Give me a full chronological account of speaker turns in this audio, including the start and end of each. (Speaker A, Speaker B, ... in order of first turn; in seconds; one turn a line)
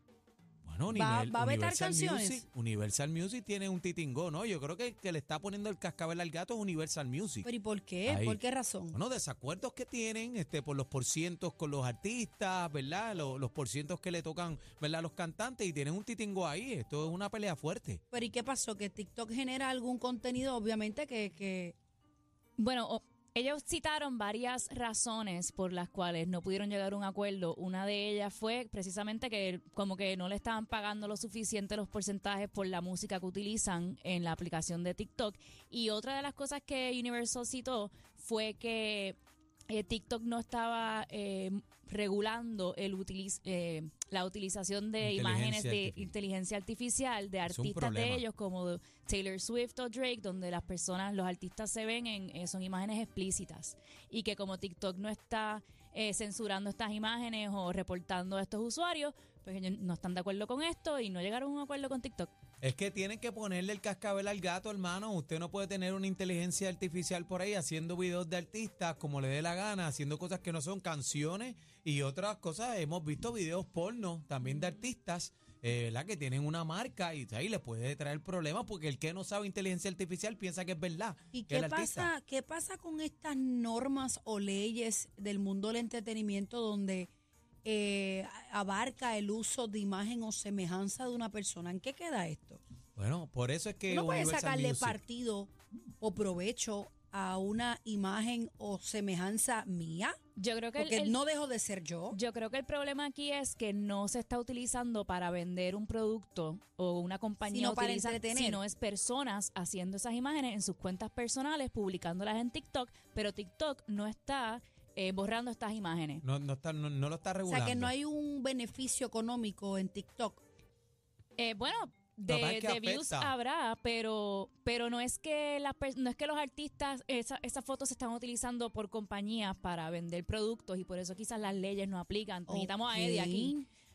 Speaker A: 0.6-7.5
Speaker B: 0.9-2.4
Speaker B: 7.4-9.0
Speaker A: 8.1-8.4
Speaker A: 8.9-18.0
Speaker B: 18.1-21.7
Speaker C: 22.6-39.2
Speaker C: 39.7-62.3
Speaker A: 45.0-46.1
Speaker A: 47.5-48.2
Speaker A: 62.6-82.1
Speaker B: 81.3-87.1
Speaker B: 87.6-92.6
Speaker A: 93.0-95.0
Speaker B: 93.9-100.2
Speaker C: 100.4-101.2
Speaker B: 100.7-102.2
Speaker C: 102.1-116.2
Speaker B: 107.5-108.6
Speaker A: 116.2-117.9
Speaker B: 117.5-120.4
Speaker C: 121.4-133.6
Speaker A: 122.3-123.3
Speaker B: 132.5-133.7